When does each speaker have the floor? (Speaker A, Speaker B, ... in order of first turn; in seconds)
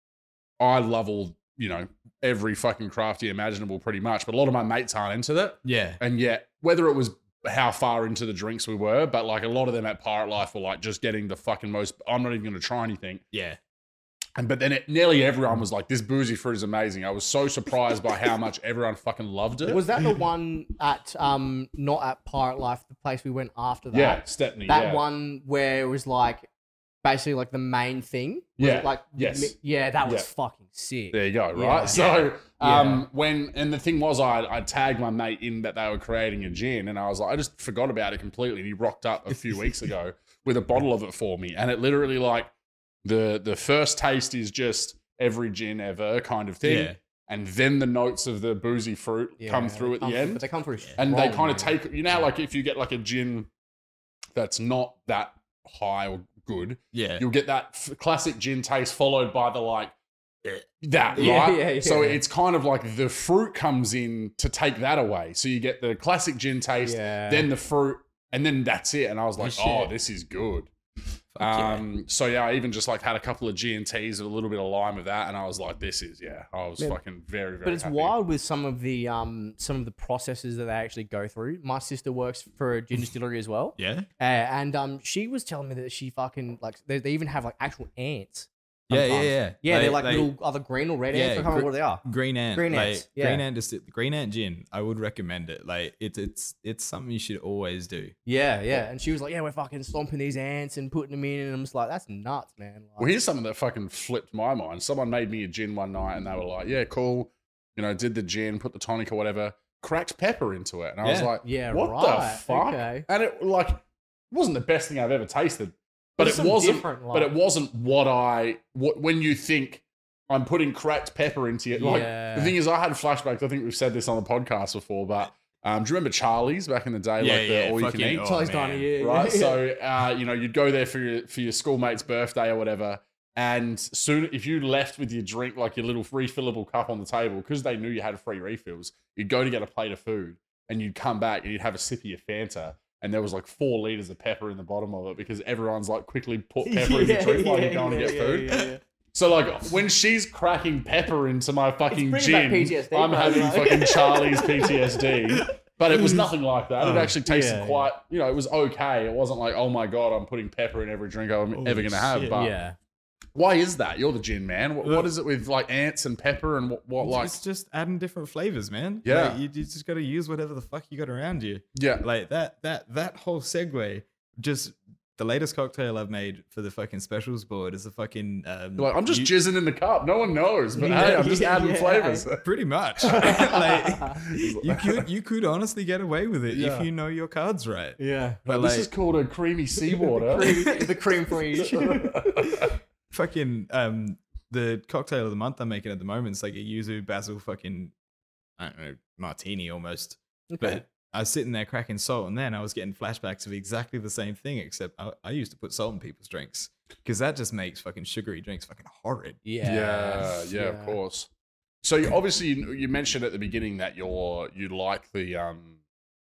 Speaker A: 0.6-13.2, 14.4-19.8, 23.9-25.0, 28.6-30.3, 31.1-42.5, 43.0-50.4, 51.0-53.5, 54.4-59.9, 60.8-70.7, 71.4-78.2, 103.0-128.3, 129.0-148.6, 149.1-162.5, 163.3-167.4, 169.1-169.4, 171.8-172.0, 178.8-182.4, 183.0-183.6, 184.2-185.0, 186.5-186.9, 188.5-190.8, 191.7-192.7, 209.6-211.3, 211.8-215.8
Speaker B: 5.7-6.0, 13.3-13.6, 31.9-32.3, 46.6-47.0, 56.9-57.3, 71.3-71.9, 83.8-84.1, 88.9-90.3, 91.1-98.1, 111.0-111.3, 127.2-128.9, 155.4-157.2, 161.5-162.4, 164.8-165.1, 167.0-179.3, 180.9-181.2, 182.4-188.9, 190.4-190.9, 192.4-197.9, 198.6-209.4
Speaker C: 19.7-26.5, 27.0-32.0, 32.6-33.1, 49.4-51.8, 61.1-62.2, 66.8-67.5, 69.4-69.9, 77.7-93.4, 98.3-103.2, 111.4-113.1, 116.2-117.3, 121.8-122.6, 128.2-129.6, 146.6-148.8, 151.9-155.0, 157.2-157.9, 162.3-162.8, 180.8-182.3, 183.0-184.2, 188.0-188.4, 190.2-192.5, 200.5-200.8, 209.4-211.0